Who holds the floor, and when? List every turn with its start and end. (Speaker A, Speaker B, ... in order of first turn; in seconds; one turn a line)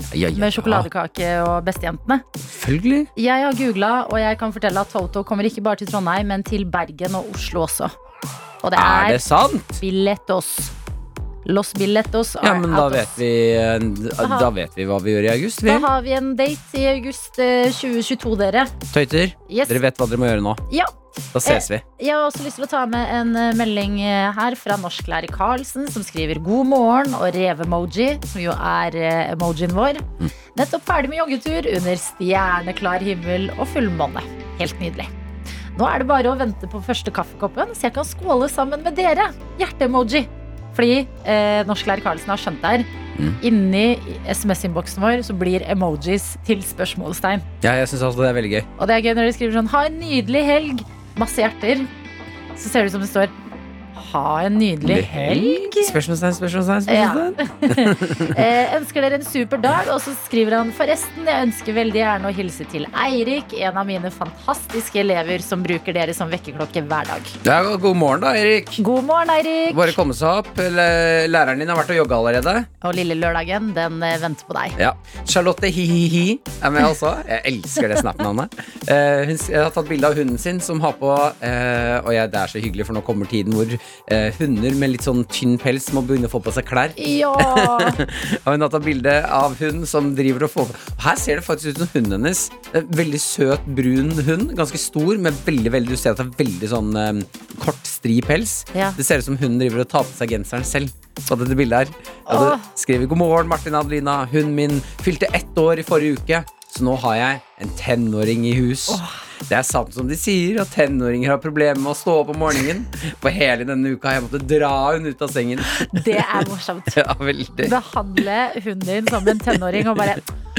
Speaker A: 0.1-0.9
Speaker B: 0.3-2.2
Speaker A: 2.4-3.1
Speaker B: 3.1-7.9
Speaker B: 8.6-9.3
Speaker A: 8.8-9.8
Speaker B: 9.8-10.7
Speaker B: 11.4-13.2
Speaker A: 12.4-15.9
Speaker B: 14.2-14.5
Speaker B: 15.7-18.7
Speaker A: 18.9-20.6
Speaker B: 19.5-19.8
Speaker B: 20.7-35.1
Speaker A: 21.3-21.8
Speaker B: 35.8-42.9
Speaker B: 43.4-47.5
Speaker A: 47.6-48.7
Speaker B: 48.8-51.9
Speaker B: 52.6-53.3
Speaker B: 54.0-56.0
Speaker A: 54.8-58.4
Speaker B: 56.9-67.4
Speaker A: 67.4-68.8
Speaker B: 68.8-70.0
Speaker A: 69.7-72.7
Speaker B: 72.8-74.8
Speaker A: 74.8-116.4
Speaker B: 87.0-88.0
Speaker B: 102.3-102.7
Speaker B: 108.9-109.2
Speaker B: 115.7-117.0
Speaker A: 117.0-117.8
Speaker B: 117.6-120.2
Speaker A: 119.5-120.2